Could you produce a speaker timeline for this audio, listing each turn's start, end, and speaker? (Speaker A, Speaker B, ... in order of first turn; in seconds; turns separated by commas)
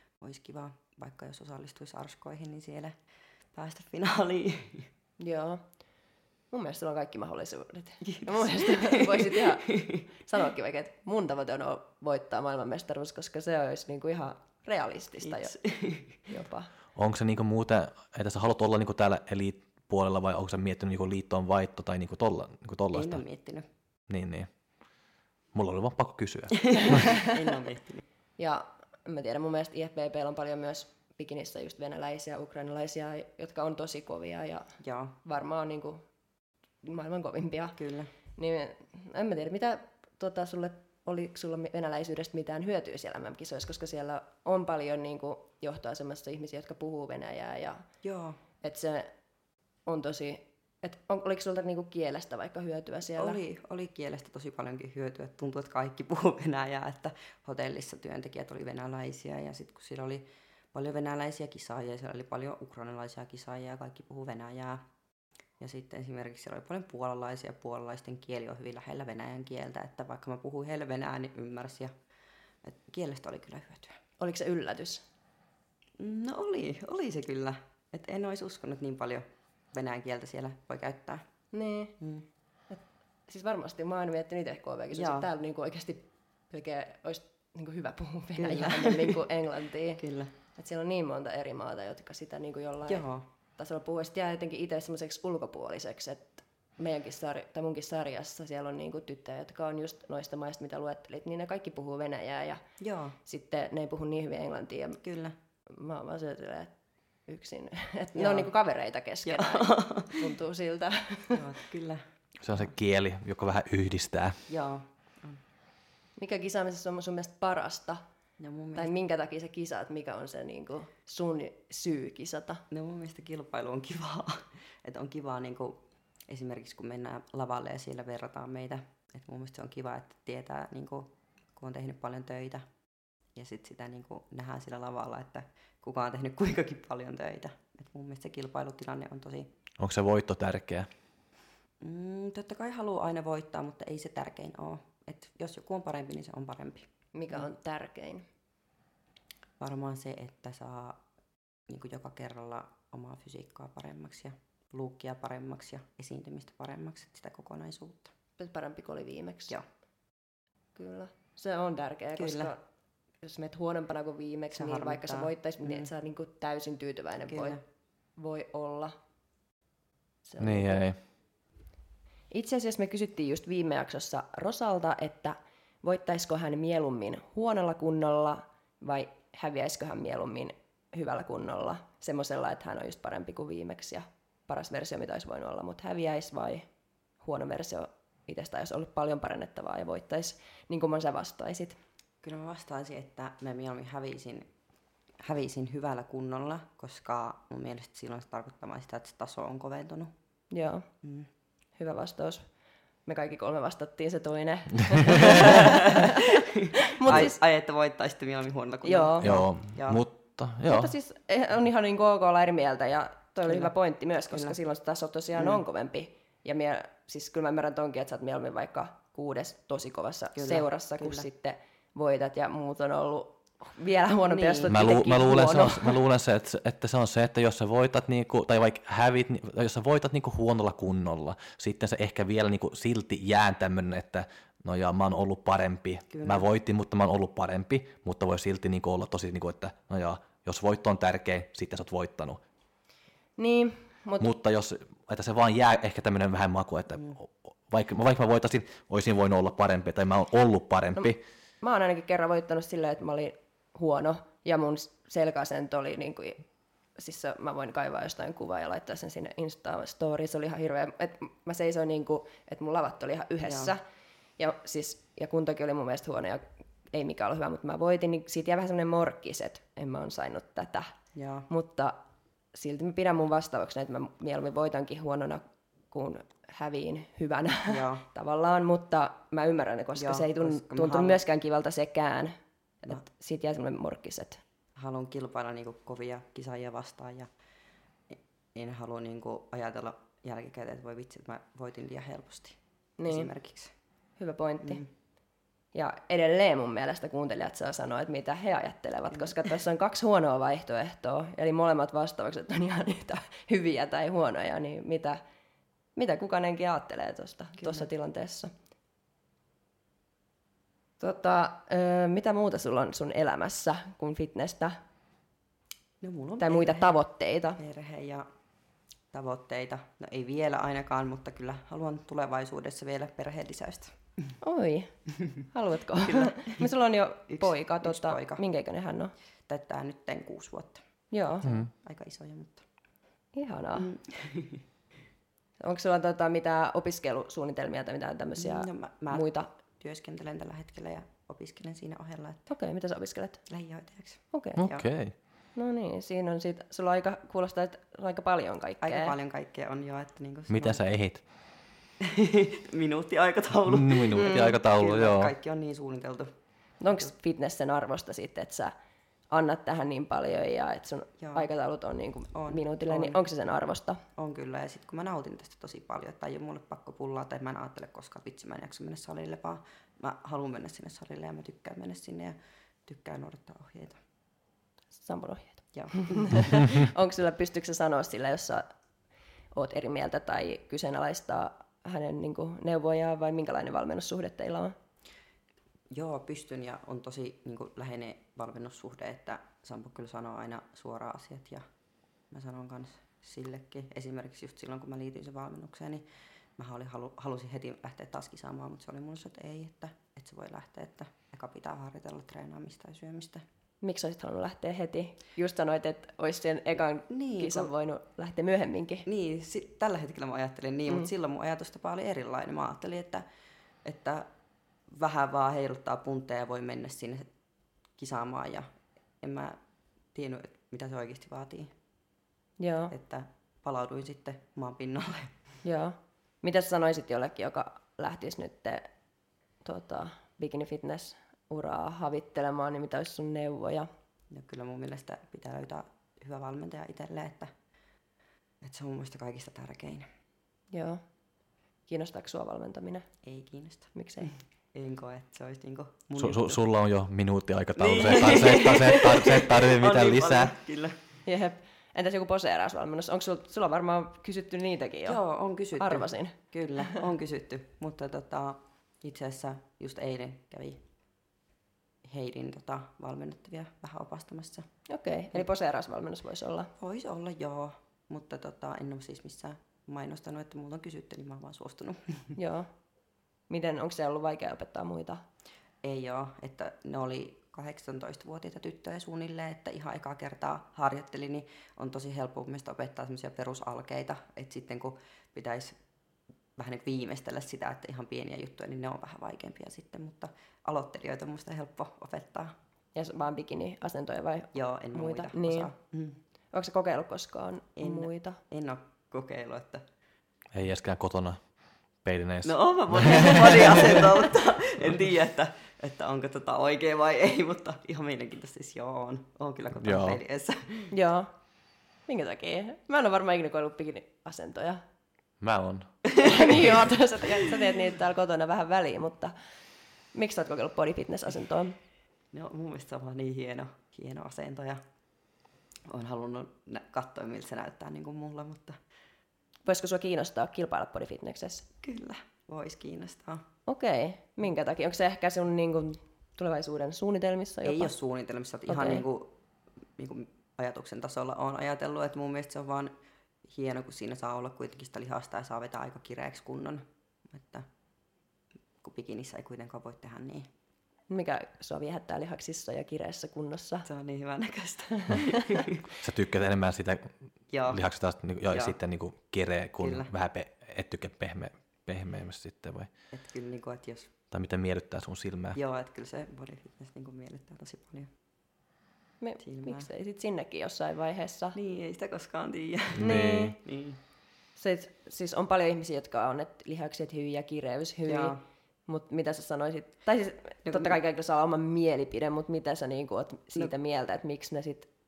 Speaker A: 0.2-2.9, Speaker A: 3.5-4.9, Speaker B: 5.2-5.6, Speaker B: 6.5-15.6, Speaker A: 8.0-10.0, Speaker A: 15.2-16.2, Speaker B: 16.3-16.7, Speaker C: 16.9-23.2, Speaker A: 22.9-23.6, Speaker C: 24.1-24.5, Speaker C: 25.5-27.1, Speaker A: 26.5-28.0, Speaker B: 26.9-27.3, Speaker B: 28.4-36.0, Speaker A: 34.8-35.2, Speaker B: 36.8-37.8, Speaker A: 37.8-38.1, Speaker B: 38.4-47.8, Speaker A: 48.0-48.4, Speaker B: 48.6-49.1, Speaker B: 49.9-53.4, Speaker A: 53.2-64.8, Speaker A: 65.6-71.9, Speaker A: 72.6-74.0, Speaker B: 74.2-75.0, Speaker A: 76.0-81.2, Speaker B: 81.5-81.9, Speaker A: 82.0-82.2, Speaker B: 82.7-90.0, Speaker A: 84.9-85.3, Speaker A: 88.4-89.3, Speaker A: 90.0-90.3, Speaker B: 90.5-93.0, Speaker A: 92.9-93.2, Speaker B: 93.6-102.6, Speaker A: 102.8-103.2, Speaker B: 103.2-105.0, Speaker A: 105.0-105.3, Speaker B: 105.7-106.7, Speaker B: 107.3-111.4, Speaker A: 108.1-108.5, Speaker A: 109.2-110.3, Speaker A: 111.3-112.0, Speaker C: 112.4-114.4, Speaker A: 114.5-115.4, Speaker B: 116.2-118.0, Speaker A: 118.4-118.9, Speaker B: 118.8-122.6, Speaker A: 122.7-132.6, Speaker A: 133.3-139.5, Speaker C: 139.8-140.9, Speaker A: 141.8-147.4, Speaker B: 147.1-148.2, Speaker A: 149.6-151.0, Speaker A: 151.7-158.1, Speaker B: 158.4-159.6, Speaker B: 160.8-162.6, Speaker A: 162.2-162.5, Speaker B: 163.2-167.6, Speaker A: 164.5-165.9, Speaker A: 167.3-167.6, Speaker B: 168.2-168.9, Speaker B: 170.2-170.8, Speaker C: 170.4-171.0, Speaker B: 172.3-186.6, Speaker B: 187.2-191.8, Speaker A: 192.2-194.5, Speaker A: 195.2-200.1, Speaker B: 200.5-200.8, Speaker A: 201.0-201.3, Speaker B: 201.8-202.4, Speaker B: 203.1-207.4, Speaker A: 205.2-210.0, Speaker B: 208.8-209.3, Speaker C: 209.2-210.9, Speaker B: 210.7-226.0, Speaker A: 213.4-213.7, Speaker A: 214.3-214.6, Speaker A: 220.3-221.2, Speaker A: 224.3-224.7, Speaker C: 224.7-242.4, Speaker A: 236.1-236.4, Speaker B: 243.4-244.3, Speaker C: 244.2-251.2, Speaker B: 251.6-256.4, Speaker B: 257.0-263.8, Speaker A: 263.4-263.7, Speaker B: 264.4-270.9, Speaker A: 271.1-271.5, Speaker B: 271.5-272.0, Speaker B: 272.5-284.4, Speaker A: 277.6-278.0, Speaker A: 279.9-281.2, Speaker A: 284.8-287.3, Speaker A: 288.1-293.7, Speaker B: 293.0-293.3, Speaker B: 294.2-294.8, Speaker A: 294.6-294.9, Speaker B: 295.7-305.2, Speaker B: 305.9-308.5, Speaker A: 307.6-307.9, Speaker B: 311.0-314.8, Speaker A: 316.0-316.9, Speaker B: 316.4-317.6, Speaker A: 317.6-318.3, Speaker A: 319.1-324.3, Speaker B: 324.4-324.9, Speaker B: 325.5-329.1, Speaker A: 326.0-326.7, Speaker A: 327.3-328.4, Speaker A: 329.5-330.8, Speaker B: 331.1-331.5, Speaker A: 331.4-332.6, Speaker C: 331.4-331.7, Speaker B: 333.3-333.9, Speaker A: 333.8-334.6, Speaker B: 335.6-339.5, Speaker A: 338.4-342.5, Speaker B: 342.5-343.4, Speaker A: 343.5-344.9, Speaker B: 344.3-344.6, Speaker C: 344.6-345.1, Speaker B: 345.6-349.1, Speaker A: 348.8-350.8, Speaker C: 350.5-351.2, Speaker A: 352.0-356.3, Speaker C: 353.7-355.3, Speaker B: 354.1-354.5, Speaker B: 356.8-358.7, Speaker B: 359.3-364.0, Speaker A: 361.2-361.5, Speaker A: 362.3-363.2, Speaker A: 364.1-374.0, Speaker B: 374.9-378.6, Speaker A: 375.7-376.6, Speaker B: 379.5-384.7, Speaker A: 385.9-391.6, Speaker A: 392.3-396.0, Speaker A: 396.6-403.4, Speaker B: 403.8-409.0, Speaker A: 407.1-407.7, Speaker A: 409.1-413.2, Speaker A: 413.8-414.3, Speaker A: 414.9-417.3, Speaker A: 418.0-418.7, Speaker A: 419.2-419.6, Speaker A: 420.1-421.7, Speaker B: 422.6-422.9, Speaker A: 422.9-425.3, Speaker B: 425.6-428.9, Speaker B: 429.6-433.9, Speaker A: 434.3-437.5, Speaker A: 438.6-440.1, Speaker B: 440.7-441.0, Speaker B: 441.9-443.0, Speaker A: 443.2-446.6, Speaker B: 443.9-444.3, Speaker C: 446.2-450.5, Speaker A: 447.8-451.0, Speaker B: 451.2-455.2, Speaker A: 455.1-460.8, Speaker B: 455.8-457.0, Speaker A: 462.0-464.7, Speaker B: 464.9-466.7, Speaker A: 466.8-472.4, Speaker B: 472.4-472.7, Speaker B: 473.5-475.2, Speaker A: 475.8-485.8, Speaker A: 486.6-492.5, Speaker B: 492.9-495.7, Speaker A: 494.5-496.2, Speaker B: 496.5-498.4, Speaker A: 497.8-499.8, Speaker C: 500.5-501.4, Speaker C: 502.0-504.0, Speaker A: 502.4-510.9, Speaker C: 509.8-510.2, Speaker B: 510.9-511.3, Speaker B: 512.1-514.8, Speaker C: 515.4-515.9, Speaker A: 516.0-516.8, Speaker B: 516.1-519.3, Speaker B: 520.1-521.8, Speaker A: 522.3-524.8, Speaker A: 525.9-528.8, Speaker B: 529.6-531.7, Speaker A: 531.8-533.5, Speaker B: 533.7-537.9, Speaker A: 537.6-539.3, Speaker B: 538.7-539.0, Speaker A: 540.0-542.9, Speaker A: 543.5-547.6, Speaker A: 548.8-550.5, Speaker B: 551.1-553.9, Speaker A: 553.9-555.8, Speaker B: 555.0-555.4, Speaker C: 556.0-557.1, Speaker A: 557.5-557.8, Speaker C: 557.7-562.9, Speaker A: 558.5-558.8, Speaker A: 559.8-560.1, Speaker A: 563.1-564.1, Speaker C: 564.3-565.6, Speaker A: 565.5-568.1, Speaker B: 569.2-571.6, Speaker A: 569.4-569.9, Speaker A: 571.5-574.0, Speaker C: 572.9-573.6, Speaker B: 573.0-573.6, Speaker B: 574.6-578.4, Speaker A: 578.1-578.4, Speaker B: 578.9-584.9, Speaker A: 580.6-580.9